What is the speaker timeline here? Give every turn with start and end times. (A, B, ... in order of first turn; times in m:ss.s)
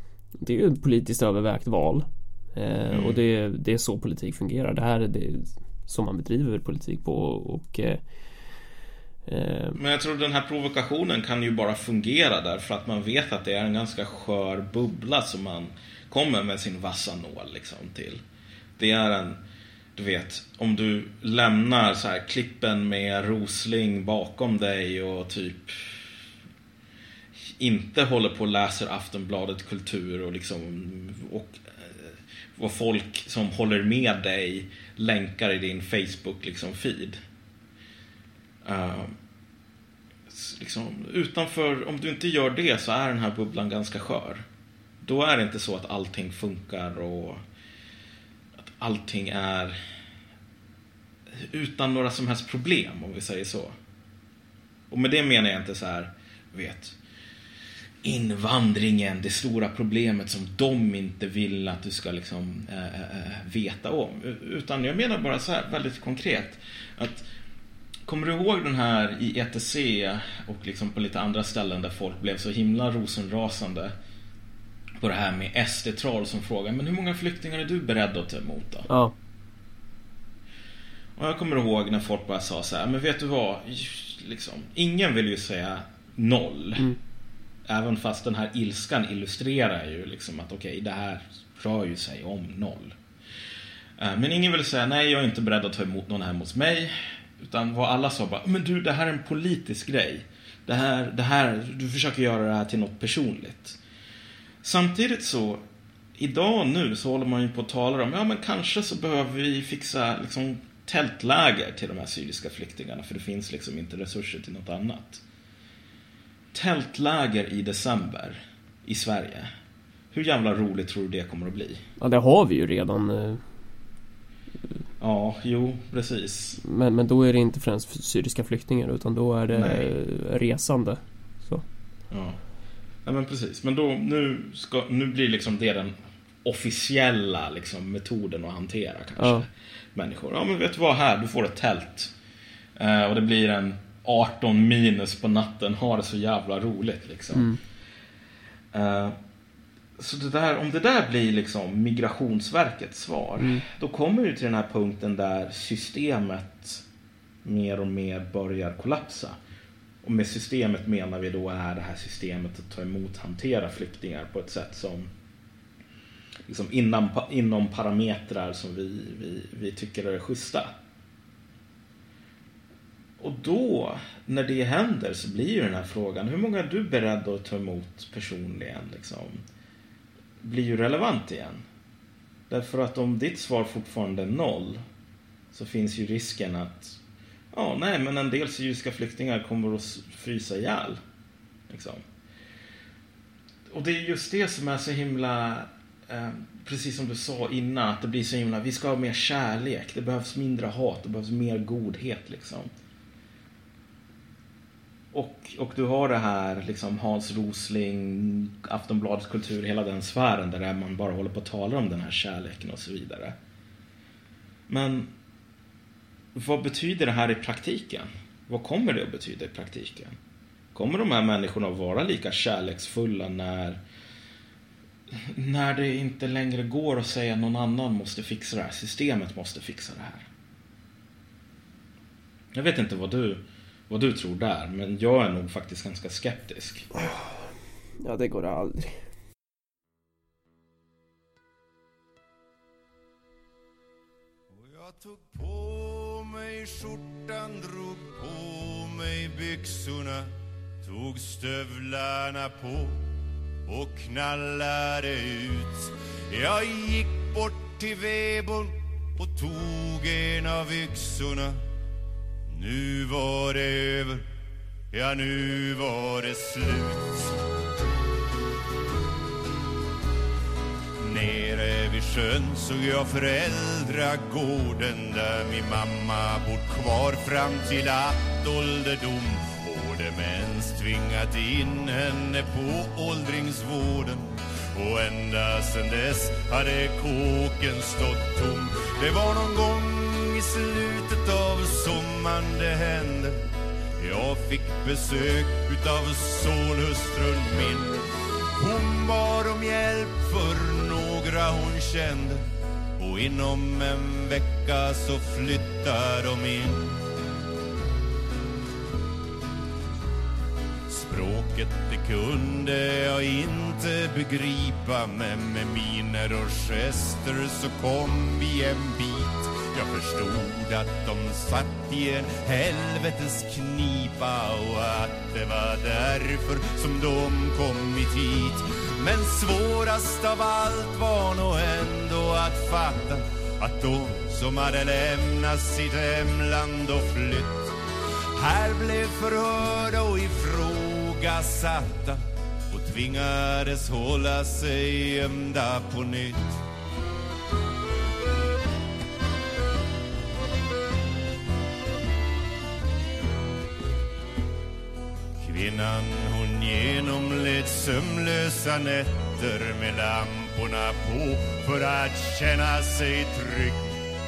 0:00.4-0:08.0 A
0:02.9-0:03.2 B
0:09.3-0:09.8 A
0:09.8-0:18.2 B
0:18.8-0:19.4 B
0:20.0-0:26.0 B
0:27.6-0:37.2 B
0:38.6-0:39.1 B
0:40.3-0:44.4 B
0:45.0-0:47.4 B
0:48.6-0:49.8 B
0:51.3-0:53.7 B
0:54.9-0:57.0 B
0:58.0-1:07.3 B
1:08.1-1:13.9 B
1:15.0-1:18.9 B
1:18.9-1:19.1 A
1:21.2-1:26.9 B
1:27.7-1:33.0 B
1:34.0-1:43.8 B
1:44.6-1:45.6 B
1:46.2-1:55.2 B
1:56.5-1:59.5 B
2:00.1-2:01.8 B
2:02.0-2:03.4 A
2:05.0-2:06.6 B
2:06.6-2:11.6 A
2:09.5-2:09.9 B
2:12.1-2:12.4 B
2:13.0-2:22.1 B
2:19.2-2:19.4 A
2:22.8-2:27.5 B
2:27.3-2:27.6 A
2:28.7-2:29.2 B
2:30.0-2:36.8 B
2:37.4-2:39.4 B
2:40.0-2:45.1 B
2:46.5-2:50.7 B
2:53.2-2:59.4 B
3:00.4-3:01.6 B
3:02.5-3:04.8 B
3:05.5-3:07.0 B
3:07.5-3:11.0 B
3:11.7-3:12.0 B
3:13.7-3:22.7 B
3:25.1-3:33.4 B
3:34.7-3:35.1 B
3:36.4-3:40.2 B
3:40.7-3:43.8 B
3:45.1-3:50.3 B
3:52.5-3:56.9 B
3:58.0-3:59.0 A
4:04.5-4:10.3 C
4:10.8-4:13.0 C
4:13.7-4:21.6 C
4:22.5-4:24.3 C
4:24.9-4:27.4 C
4:31.0-4:53.4 C
4:54.0-4:58.0 C
4:58.6-5:02.4 C
5:03.0-5:07.0 C
5:10.9-5:37.8 C
5:38.4-5:46.6 C
5:55.4-6:04.0 C